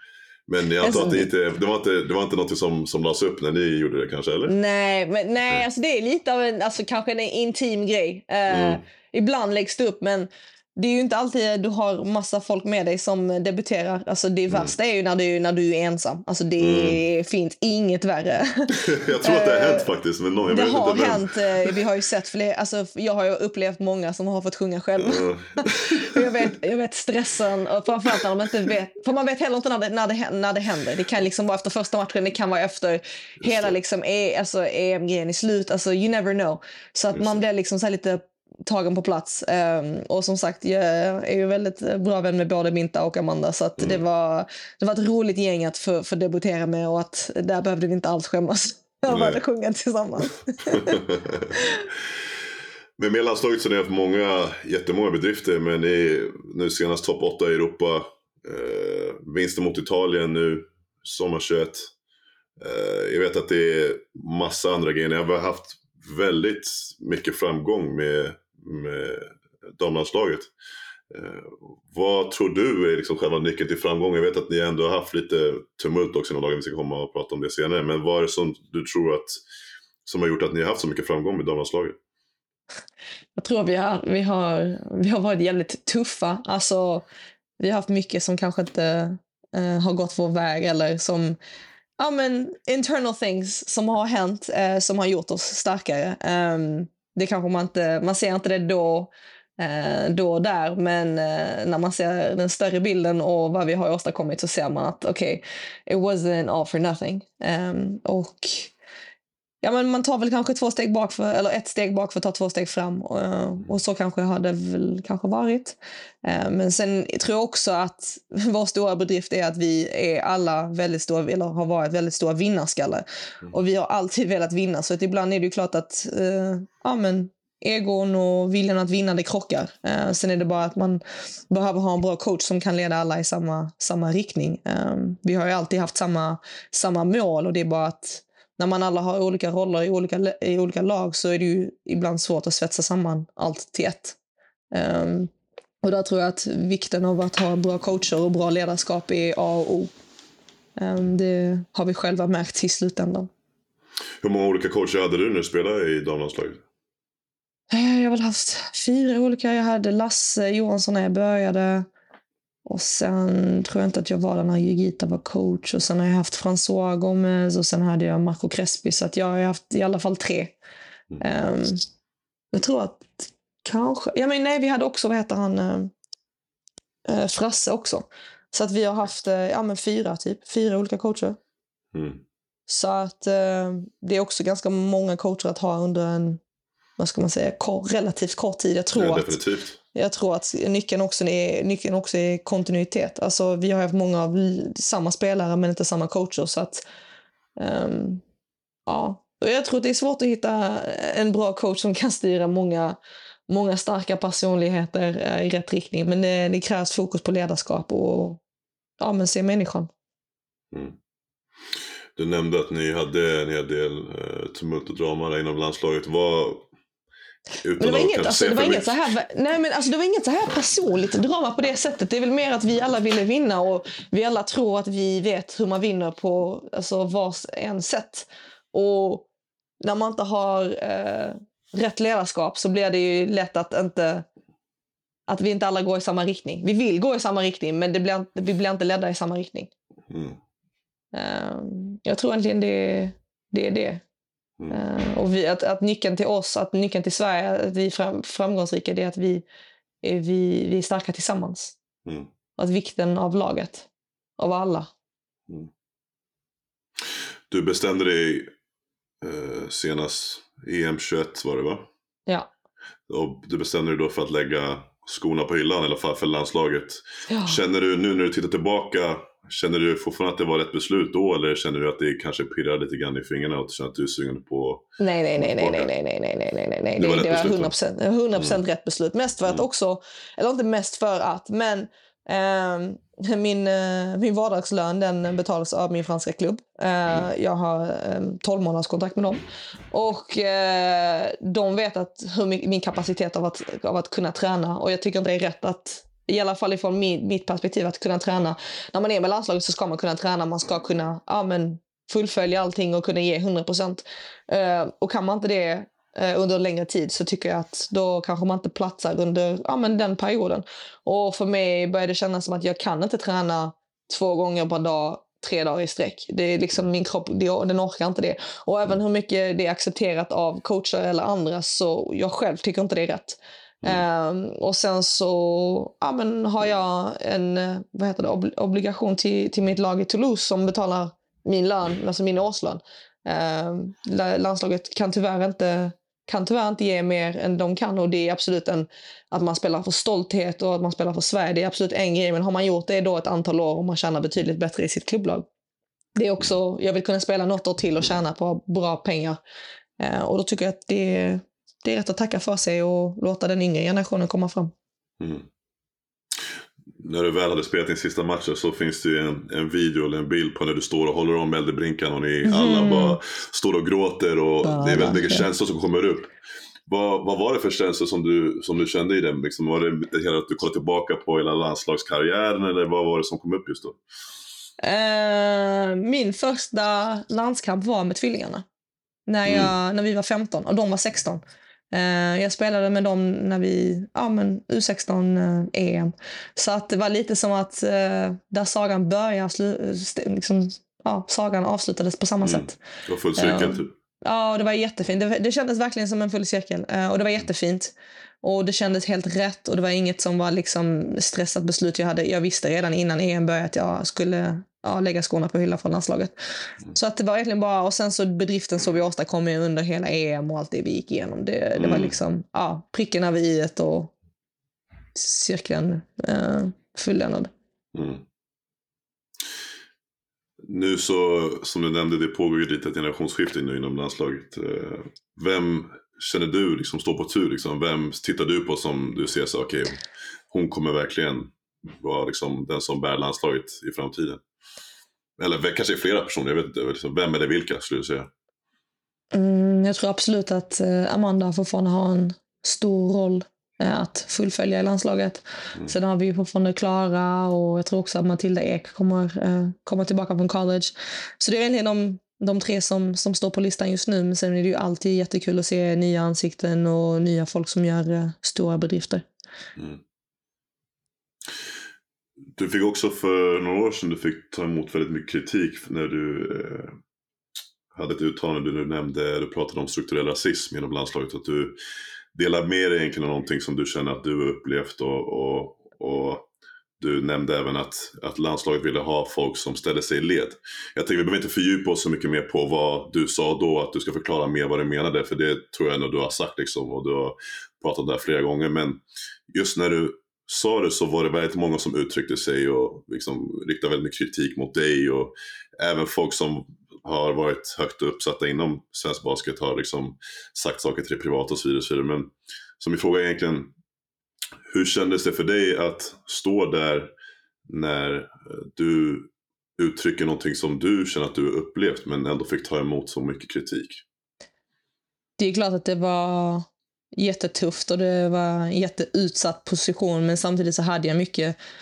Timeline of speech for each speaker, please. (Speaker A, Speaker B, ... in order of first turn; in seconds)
Speaker A: 0.5-4.6, 8.5-8.8, 16.6-17.0, 18.7-21.8, 25.0-26.4, 33.4-33.8, 37.1-37.4, 43.8-44.0, 49.1-49.4, 50.7-51.6, 53.0-61.9, 62.6-70.5, 71.1-79.3, 80.0-82.0, 154.2-156.6, 181.9-182.2, 188.9-189.8, 210.7-211.0, 212.2-216.7, 217.6-219.0, 240.1-240.4, 257.5-258.5, 259.2-261.9, 263.1-275.9, 277.0-277.7, 355.2-355.5, 357.0-366.3, 366.9-374.0, 379.5-379.7, 392.4-393.9, 411.8-412.1, 417.9-418.2, 420.6-434.4, 435.4-438.3, 459.8-460.0, 462.6-466.9, 467.9-471.8, 472.4-476.5, 477.0-503.7, 504.7-507.1, 507.7-514.0
Speaker B: 0.8-1.3, 4.5-19.9, 20.5-51.0, 51.6-51.9, 83.4-87.0, 87.6-91.4, 92.0-108.7, 109.6-144.2, 144.7-145.3, 145.8-149.9, 150.8-153.3, 157.7-161.9, 162.7-170.6, 171.2-171.8, 172.5-175.9, 177.1-181.4, 182.7-186.4, 187.0-189.4, 189.9-196.8, 197.6-198.2, 198.9-203.0, 203.5-208.4, 209.0-209.9, 217.8-229.3, 229.8-234.2, 235.3-239.7, 241.1-244.0, 244.7-249.4, 250.0-251.8, 252.6-254.9, 267.3-267.6, 275.0-345.5, 346.2-349.4, 350.0-354.7, 362.4-363.2, 364.6-365.5, 374.8-378.6, 379.3-381.4, 381.9-392.8, 393.4-406.3, 406.9-414.1, 415.1-417.5, 439.3-459.3, 515.4-521.6